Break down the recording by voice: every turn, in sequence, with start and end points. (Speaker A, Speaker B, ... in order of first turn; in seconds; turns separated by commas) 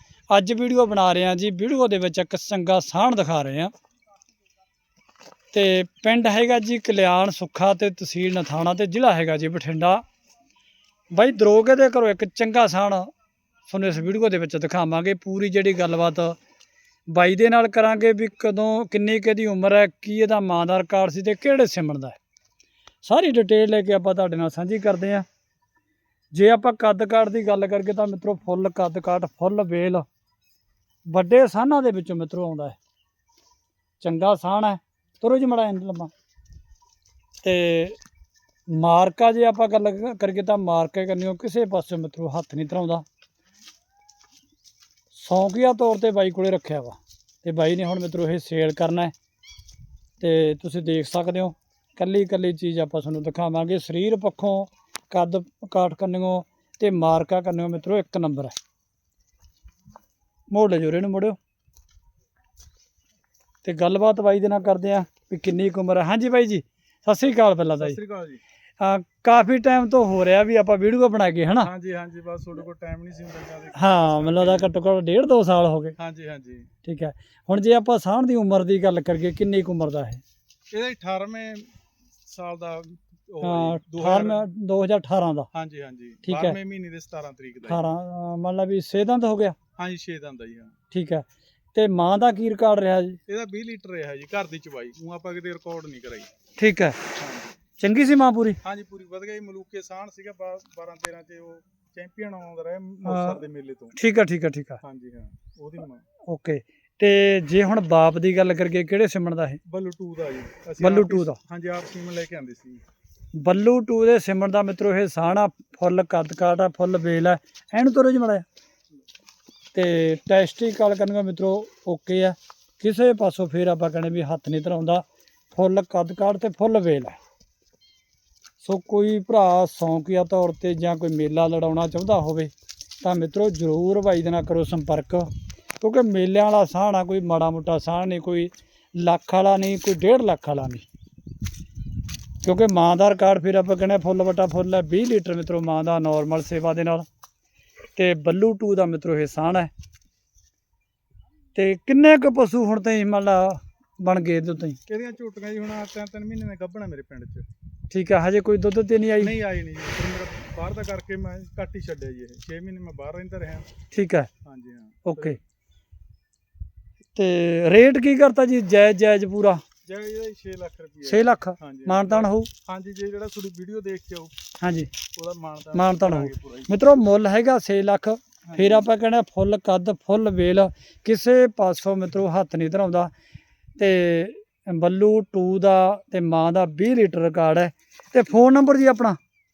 Speaker A: 0.3-3.7, Speaker A: 5.5-10.0, Speaker A: 11.1-13.1, Speaker A: 13.7-16.4, Speaker A: 17.1-22.2, Speaker A: 23.0-25.2, Speaker A: 26.3-30.1, Speaker A: 31.1-32.8, Speaker A: 34.0-36.1, Speaker A: 37.4-38.0, Speaker A: 38.7-43.0, Speaker A: 45.1-49.1, Speaker A: 50.2-58.5, Speaker A: 60.5-61.4, Speaker A: 63.6-68.0, Speaker B: 67.3-68.4, Speaker A: 68.8-71.7, Speaker B: 71.6-74.7, Speaker A: 73.7-76.0, Speaker B: 76.0-76.7, Speaker A: 76.8-80.2, Speaker B: 80.7-81.7, Speaker B: 82.2-84.5, Speaker A: 83.4-85.5, Speaker B: 85.5-87.8, Speaker A: 86.2-86.6, Speaker A: 87.7-89.6, Speaker B: 89.8-90.8, Speaker A: 90.9-93.2, Speaker B: 93.3-96.3, Speaker A: 96.6-97.0, Speaker B: 97.2-97.6, Speaker A: 97.8-98.6, Speaker B: 98.6-104.0, Speaker A: 103.1-103.4, Speaker A: 104.0-104.8, Speaker B: 104.8-106.0, Speaker A: 106.3-109.6, Speaker B: 109.7-112.8, Speaker A: 110.8-111.4, Speaker A: 113.4-118.5, Speaker A: 119.7-127.2, Speaker A: 128.6-135.3, Speaker A: 135.8-140.9, Speaker A: 142.4-147.1, Speaker A: 148.0-149.7, Speaker A: 151.6-154.8, Speaker B: 154.9-157.5, Speaker A: 157.9-159.4, Speaker B: 159.2-163.7, Speaker A: 163.9-164.3, Speaker B: 164.4-165.4, Speaker A: 165.0-165.4, Speaker A: 167.2-169.6, Speaker B: 169.8-174.4, Speaker A: 171.1-172.5, Speaker A: 174.6-174.9, Speaker B: 175.1-176.8, Speaker A: 175.7-183.1, Speaker B: 178.4-178.8, Speaker A: 183.8-189.2